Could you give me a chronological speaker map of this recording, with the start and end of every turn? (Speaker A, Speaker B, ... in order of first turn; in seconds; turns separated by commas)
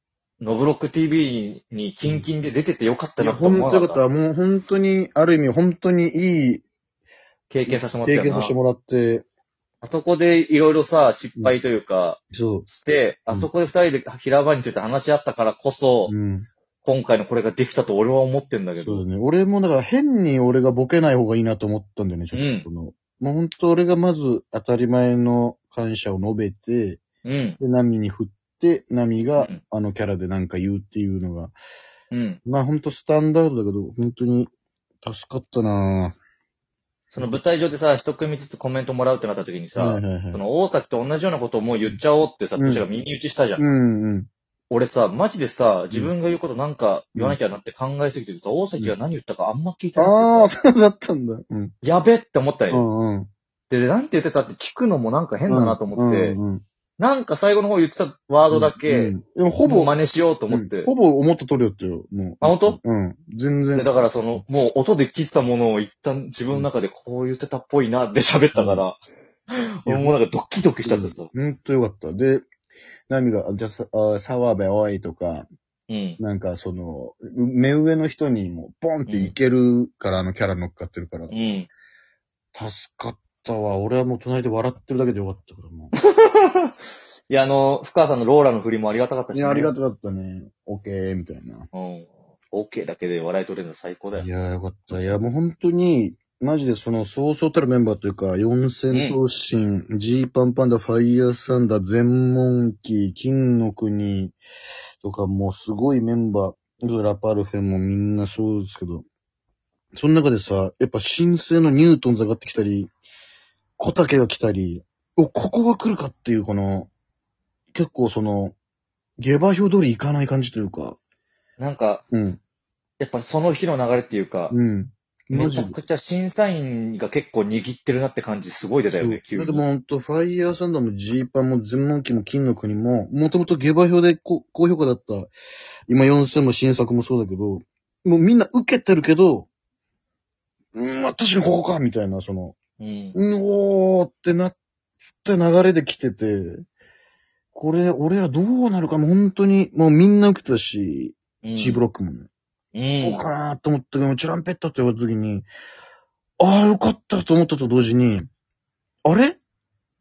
Speaker A: 0.4-4.0, Speaker B: 3.2-6.6, Speaker A: 7.5-8.5, Speaker B: 7.7-9.2, Speaker A: 9.8-16.1, Speaker B: 12.3-12.7, Speaker B: 16.1-16.5, Speaker A: 16.8-19.0, Speaker B: 18.8-27.0, Speaker A: 22.3-22.7, Speaker A: 27.2-27.6, Speaker B: 27.6-31.5, Speaker A: 32.1-32.4, Speaker B: 32.4-34.5, Speaker B: 35.0-36.2, Speaker A: 37.1-43.6, Speaker B: 39.8-40.4, Speaker B: 42.6-42.8, Speaker B: 43.6-44.3, Speaker A: 44.7-50.5, Speaker B: 50.0-51.7, Speaker A: 51.8-52.8, Speaker B: 52.7-53.3, Speaker A: 53.7-56.4, Speaker B: 55.5-56.6, Speaker A: 57.0-59.1, Speaker B: 58.5-59.9, Speaker A: 59.6-60.9, Speaker B: 60.5-64.4, Speaker A: 62.4-62.8, Speaker A: 63.7-69.0, Speaker B: 68.5-68.8, Speaker A: 69.8-71.3, Speaker B: 69.8-70.1, Speaker B: 70.8-72.5, Speaker B: 73.1-75.5, Speaker A: 75.9-76.2, Speaker B: 76.2-81.3, Speaker A: 79.1-79.3, Speaker A: 81.3-81.7, Speaker B: 82.5-85.9, Speaker A: 86.1-86.7, Speaker A: 87.3-89.7, Speaker B: 89.3-91.7, Speaker A: 91.7-94.3, Speaker B: 94.2-104.4, Speaker A: 98.9-99.2, Speaker B: 105.0-109.0, Speaker B: 109.9-112.9, Speaker B: 113.8-116.9, Speaker B: 117.7-118.5, Speaker B: 119.2-121.0, Speaker A: 121.6-122.0, Speaker B: 122.1-122.4, Speaker A: 123.0-124.5, Speaker B: 124.5-125.8, Speaker A: 125.3-129.6, Speaker B: 128.9-135.3, Speaker B: 135.9-139.5, Speaker B: 140.7-142.6, Speaker A: 142.8-143.2, Speaker B: 143.1-144.6, Speaker B: 145.2-146.6, Speaker B: 147.5-152.3, Speaker A: 151.4-151.8, Speaker A: 152.7-153.2, Speaker B: 153.0-155.5, Speaker B: 156.4-158.3, Speaker B: 159.0-159.4